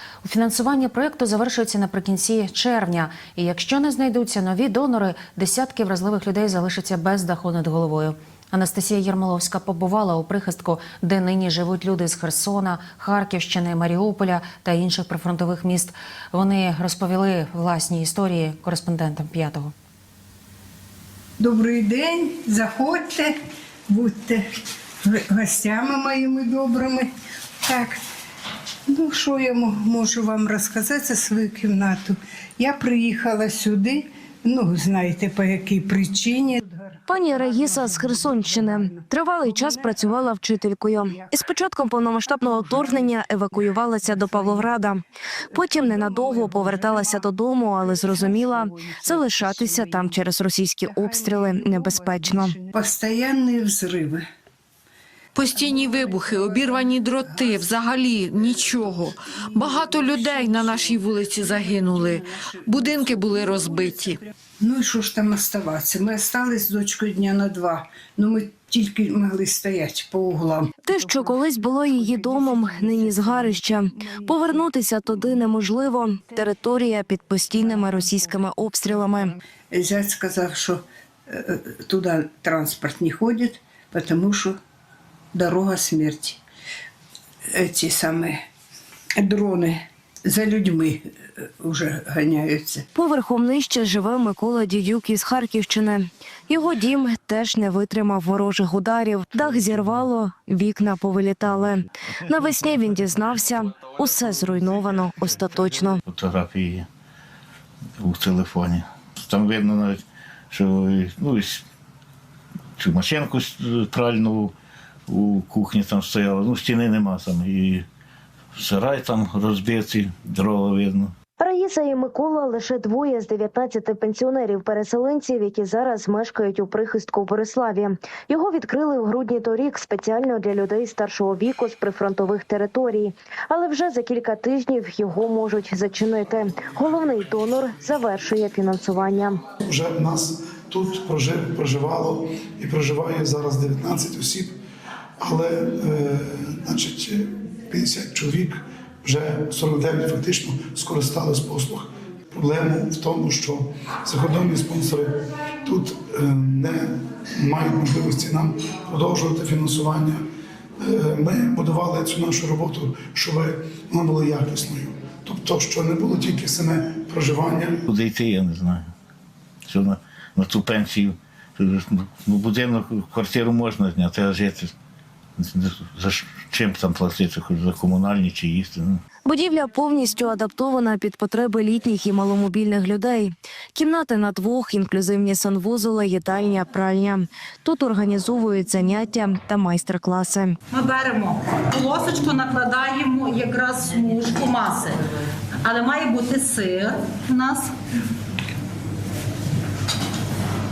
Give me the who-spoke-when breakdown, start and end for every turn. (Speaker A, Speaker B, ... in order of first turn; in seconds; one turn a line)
Speaker A: 0.2-19.7
Speaker B: 21.4-23.3
Speaker B: 23.9-24.4
Speaker B: 25.0-27.1
Speaker B: 27.6-28.0
Speaker B: 28.9-39.0
Speaker C: 37.1-52.5
Speaker B: 39.6-39.9
Speaker B: 45.9-47.2
Speaker B: 47.9-50.2
Speaker B: 50.9-54.2
Speaker D: 55.4-64.2
Speaker B: 59.8-60.9
Speaker B: 62.2-62.6
Speaker B: 63.3-70.7
Speaker C: 70.9-79.4
Speaker B: 72.2-73.6
Speaker B: 79.7-84.5
Speaker B: 85.3-86.4
Speaker B: 87.5-88.4
Speaker B: 89.2-92.8
Speaker C: 93.0-106.0
Speaker E: 106.1-106.9
Speaker E: 108.0-111.6
Speaker E: 112.8-114.5
Speaker E: 115.1-117.8
Speaker E: 118.6-121.1
Speaker C: 121.4-139.4
Speaker F: 139.7-144.6
Speaker F: 145.2-160.2
Speaker F: 160.8-167.8
Speaker E: 167.9-168.9
Speaker E: 169.7-174.8
Speaker E: 175.4-179.0
Speaker C: 179.2-190.6
Speaker G: 190.7-195.0
Speaker G: 195.6-197.7